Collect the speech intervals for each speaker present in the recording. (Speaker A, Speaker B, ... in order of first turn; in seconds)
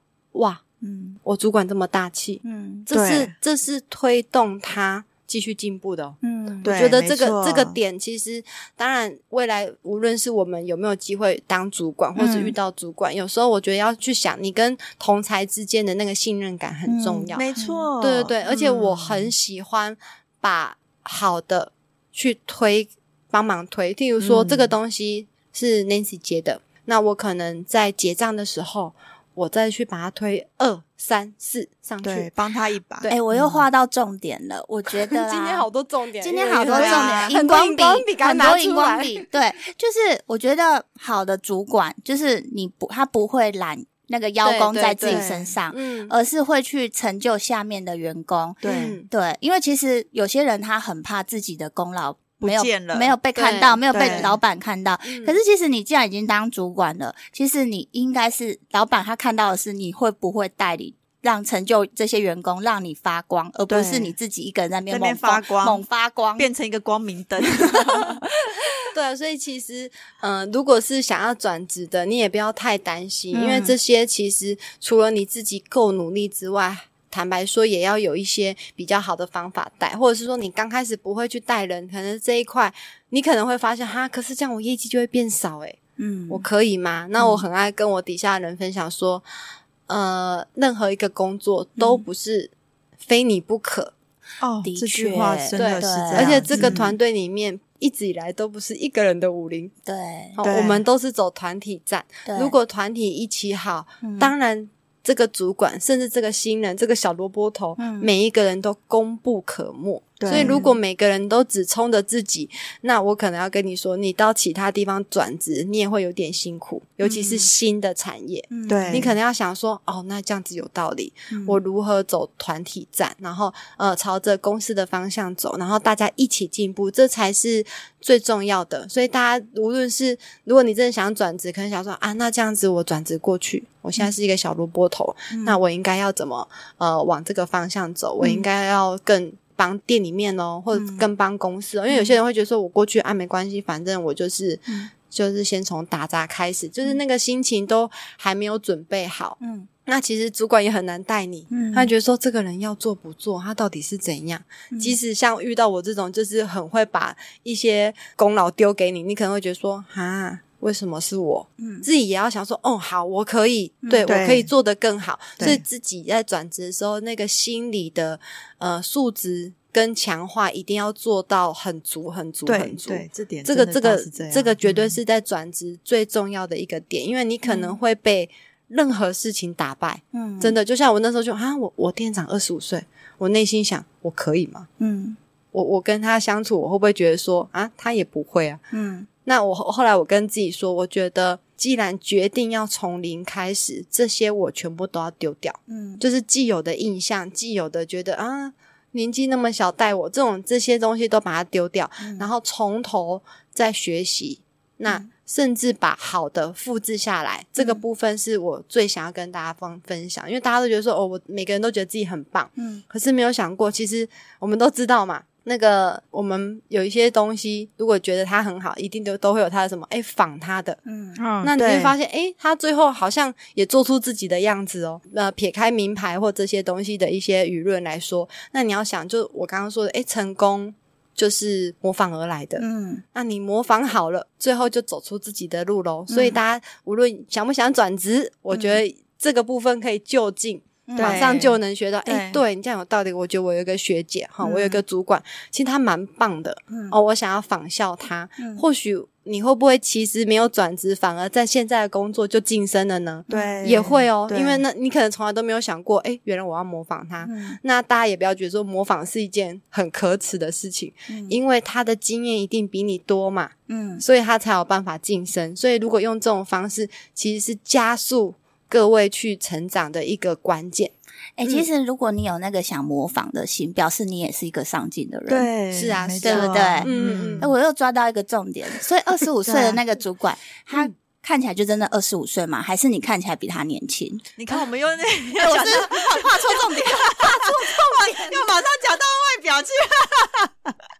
Speaker A: 0.3-0.6, 1.2-32.3, 34.9-39.3, 44.4-46.1, 48.6-49.1, 53.4-54.4, 55.0-55.4, 68.9-89.2, 89.9-93.9, 95.5-99.7, 100.4-184.7, 185.5-188.6, 189.3-220.8, 221.4-271.7, 275.7-277.5
Speaker B: 0.8-1.2, 2.4-2.9, 6.2-6.8, 12.2-12.5, 16.9-17.9, 33.1-35.7, 36.2-66.5, 67.5-68.8, 73.3-73.8, 86.0-86.5, 91.8-92.0, 94.6-96.9, 99.9-100.4, 102.3-102.5, 104.0-104.3, 107.8-108.1, 110.3-110.8, 117.0-117.5, 118.5-119.0, 121.3-121.6, 135.3-135.6, 138.2-138.5, 140.7-141.1, 141.9-142.2, 149.4-149.7, 151.5-151.9, 154.7-155.0, 161.6-161.9, 163.8-164.1, 177.4-177.8, 180.1-180.6, 184.8-185.2, 188.7-189.1, 195.7-196.0, 202.0-202.3, 212.6-212.8, 220.9-221.2, 232.6-233.0, 236.1-236.4, 238.5-238.8, 240.9-241.4, 244.4-244.8, 246.7-247.0, 253.3-254.0, 257.2-257.6, 261.1-261.4, 263.7-264.0, 271.4-275.5, 276.2-284.6, 285.4-288.3
Speaker C: 2.9-3.3, 6.6-7.8, 17.4-19.3, 24.2-24.7, 32.0-33.6, 36.6-37.4, 45.1-45.5, 48.6-49.0, 52.4-53.1, 53.9-54.4, 63.7-64.2, 64.9-65.8, 66.3-68.2, 94.4-96.8, 100.4-100.8, 110.2-110.6, 118.7-119.2, 164.1-164.5, 172.5-175.0, 221.2-221.9, 241.0-242.4, 253.3-254.6, 275.3-277.5, 279.5-279.8, 284.4-290.8